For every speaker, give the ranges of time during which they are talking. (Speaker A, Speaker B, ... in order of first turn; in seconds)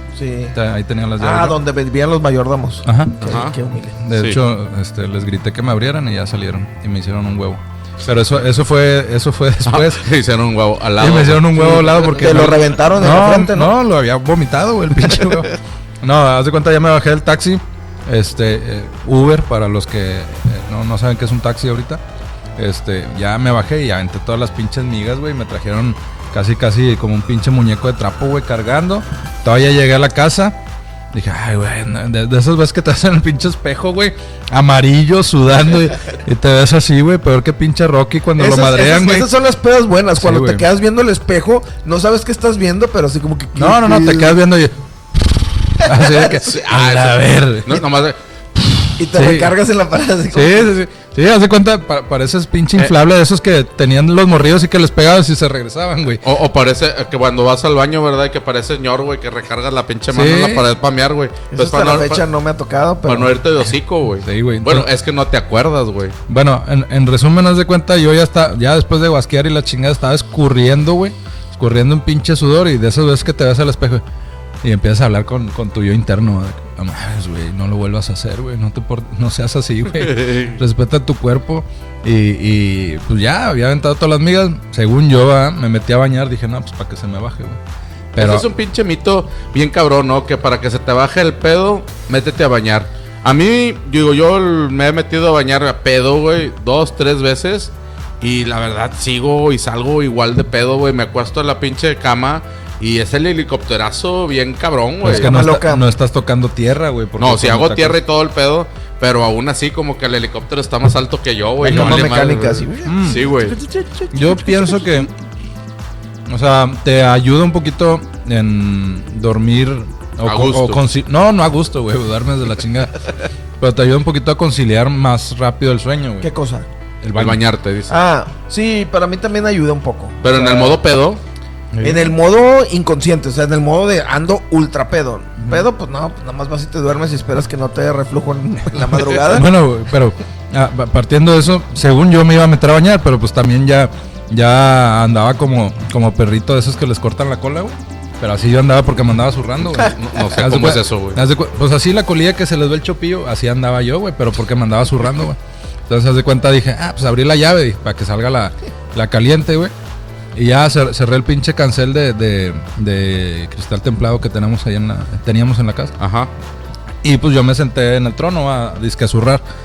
Speaker A: 0.1-0.6, 1.2-4.0, 11.8-13.7, 38.4-44.4, 45.8-46.6, 49.0-50.7, 61.5-63.4, 105.0-105.8, 111.7-115.0, 126.2-126.7, 127.9-130.8, 131.8-139.5
Speaker B: 0.5-1.6, 2.9-3.3, 4.0-10.0, 11.0-22.0, 22.6-30.6, 31.1-39.3, 40.2-40.7, 43.5-47.9, 48.6-49.5, 50.3-56.2, 60.1-60.7, 64.2-64.9, 66.3-74.0, 74.6-87.6, 88.1-88.5, 105.0-108.0, 111.6-112.2, 112.8-113.3, 114.1-115.1, 116.3-123.1, 123.6-126.3, 127.0-127.4, 131.7-132.1, 138.7-159.7, 160.3-165.9, 167.0-169.4
Speaker C: 3.2-3.5, 4.1-4.4, 9.7-12.8, 46.4-48.2, 56.2-62.2, 63.0-66.2, 80.0-80.6, 88.2-105.4, 107.2-113.6, 120.2-120.8, 127.1-128.0, 130.2-131.2, 149.8-151.2, 166.0-166.3